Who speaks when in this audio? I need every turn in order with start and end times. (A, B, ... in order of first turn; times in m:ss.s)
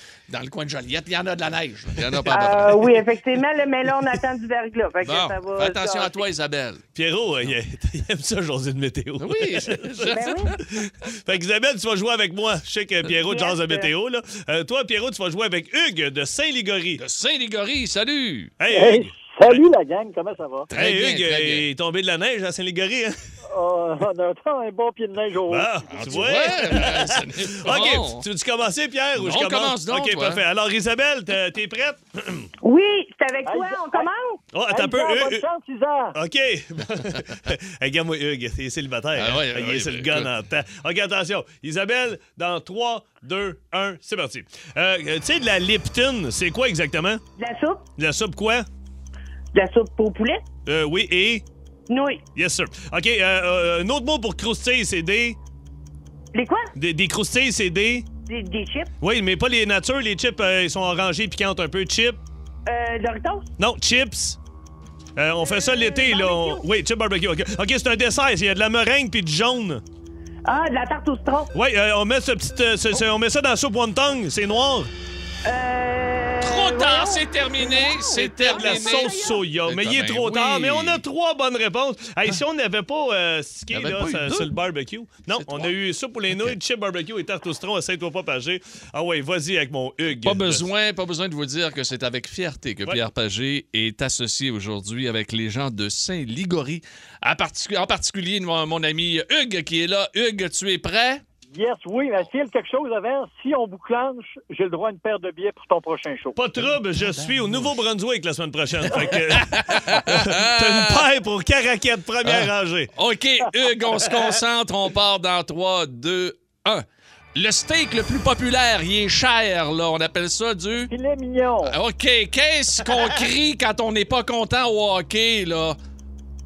0:00.3-0:03.0 A
0:02.3-0:06.1 B
0:05.0-0:06.8 A
0:06.9-0:10.1 C
0:09.2-0:10.6 A
0:10.1-0:10.6 B
0:10.8-0:17.0 C
0:13.2-0:13.9 B
0:17.0-0:18.5 A
0:18.6-0:19.7 C
0:18.7-0:20.7 D
0:20.7-0:21.7 A
0:20.7-0:23.2 C
0:23.5-0:26.8 D
0:25.5-0:32.5 C
0:25.9-0:28.3 A
0:29.2-0:30.4 A
0:32.6-0:34.4 B
0:33.4-0:34.1 D
0:34.5-0:35.4 C
0:34.6-0:36.1 D
0:36.1-0:47.2 C
0:39.2-0:40.3 A
0:47.4-0:47.8 B
0:48.0-0:48.7 C
0:49.5-0:50.4 B
0:50.6-0:51.4 C
0:51.9-0:52.2 B
0:52.3-0:55.4 C
0:56.3-0:56.7 B
0:56.7-0:58.1 C
0:58.3-0:58.9 B
0:59.0-1:02.2 C
1:02.7-1:03.4 B
1:03.6-1:04.4 C
1:05.2-1:09.8 C
1:05.5-1:06.6 B
1:10.4-1:11.5 B
1:11.5-1:14.9 C
1:15.4-1:19.4 B
1:16.4-1:21.0 A
1:18.2-1:30.7 C
1:23.7-1:24.5 A
1:25.3-1:25.7 A
1:30.2-1:41.2 A
1:41.5-1:46.7 D
1:46.4-1:52.9 C
1:47.2-1:47.7 A
1:49.1-1:51.0 A
1:52.2-2:00.9 A
2:00.9-2:01.8 D
2:01.6-2:05.8 A